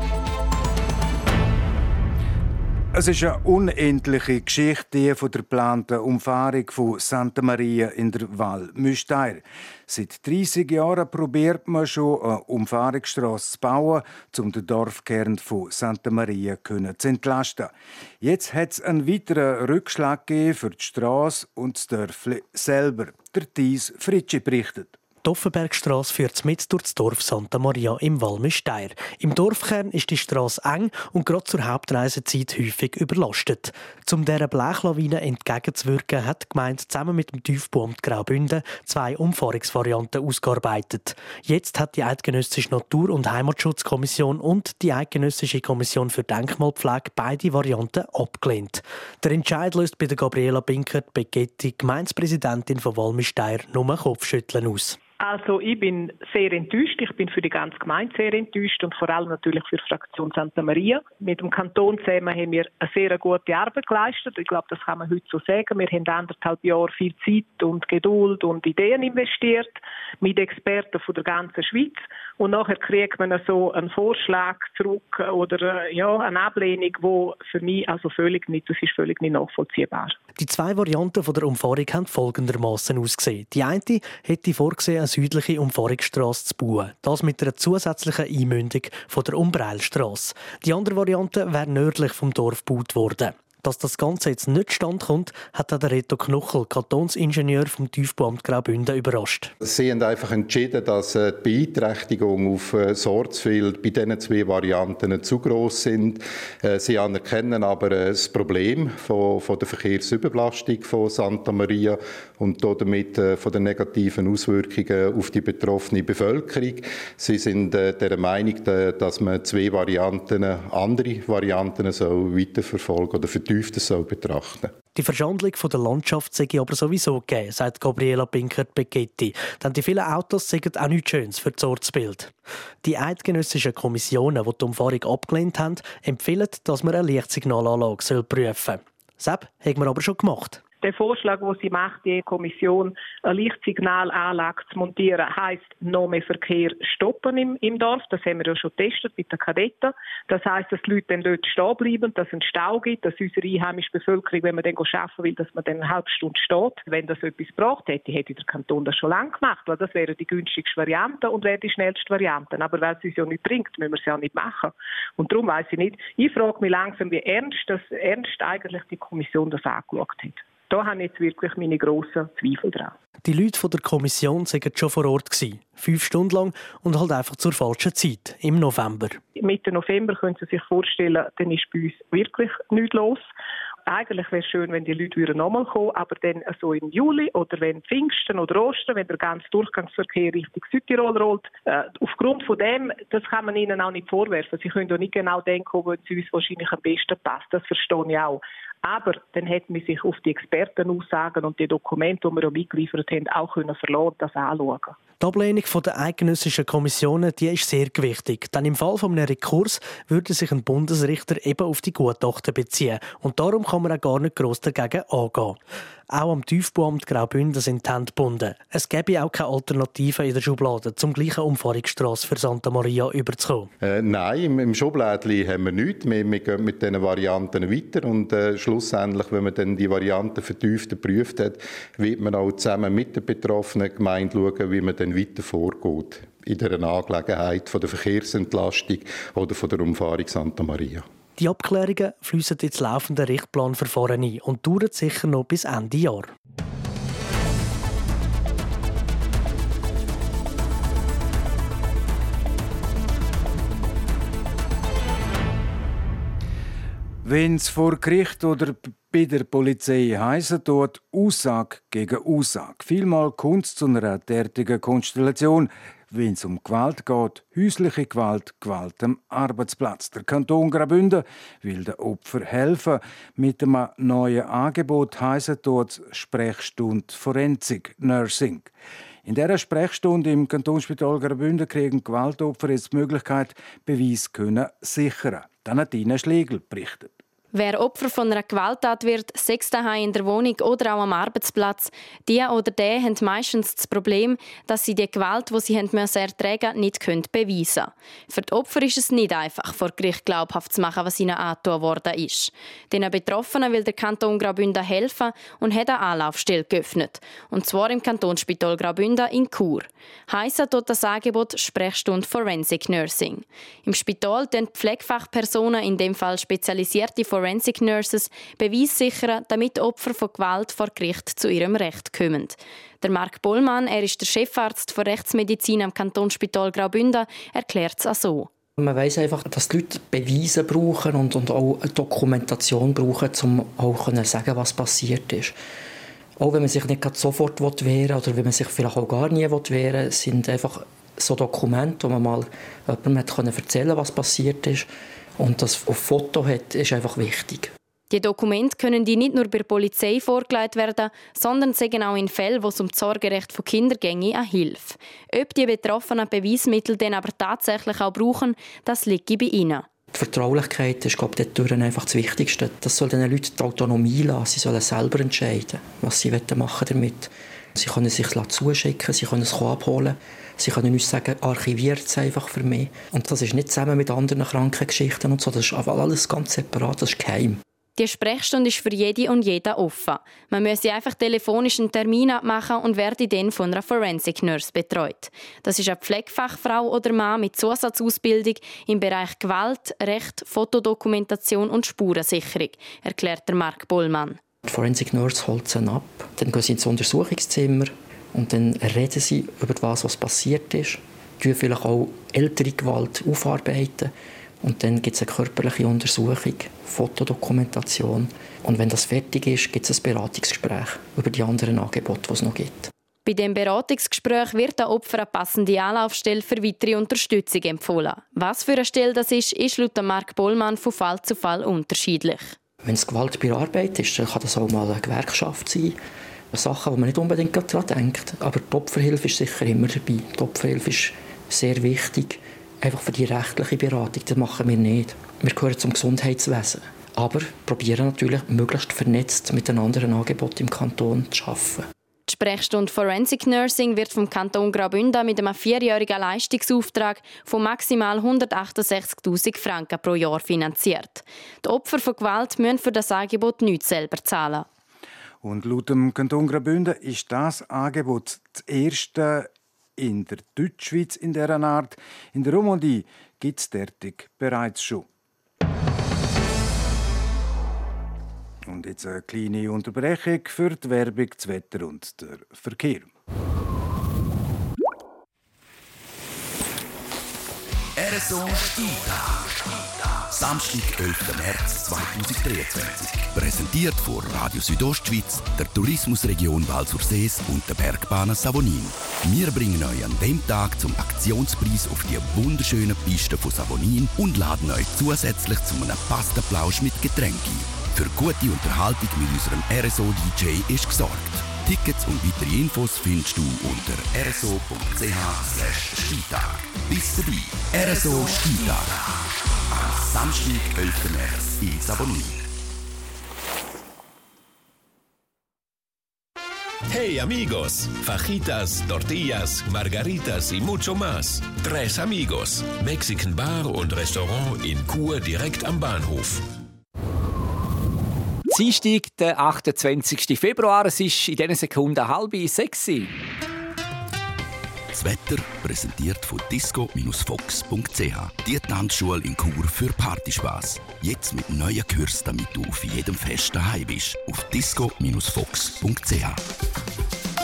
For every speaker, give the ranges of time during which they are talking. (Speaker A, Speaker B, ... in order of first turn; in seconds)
Speaker A: 2.9-24.9, 257.2-278.7, 279.2-287.1, 455.4-465.1, 468.6-473.1
Speaker B: 25.2-55.0, 80.4-99.5, 124.9-140.6, 173.2-179.2, 205.2-215.6, 216.1-223.7, 241.4-246.3
Speaker C: 55.2-80.2, 140.8-172.9, 179.4-183.3, 183.8-205.0
Speaker D: 99.6-124.7, 223.8-241.0
Speaker E: 287.5-328.5, 348.1-359.9, 378.0-394.4, 413.2-422.6, 442.3-454.6
Speaker F: 328.8-335.6, 336.4-347.7, 360.1-377.6, 394.6-412.9, 422.8-426.0, 426.5-441.9
Speaker G: 477.9-509.0, 509.7-512.4, 534.9-546.4
Speaker H: 516.9-526.5
Speaker I: 528.5-533.1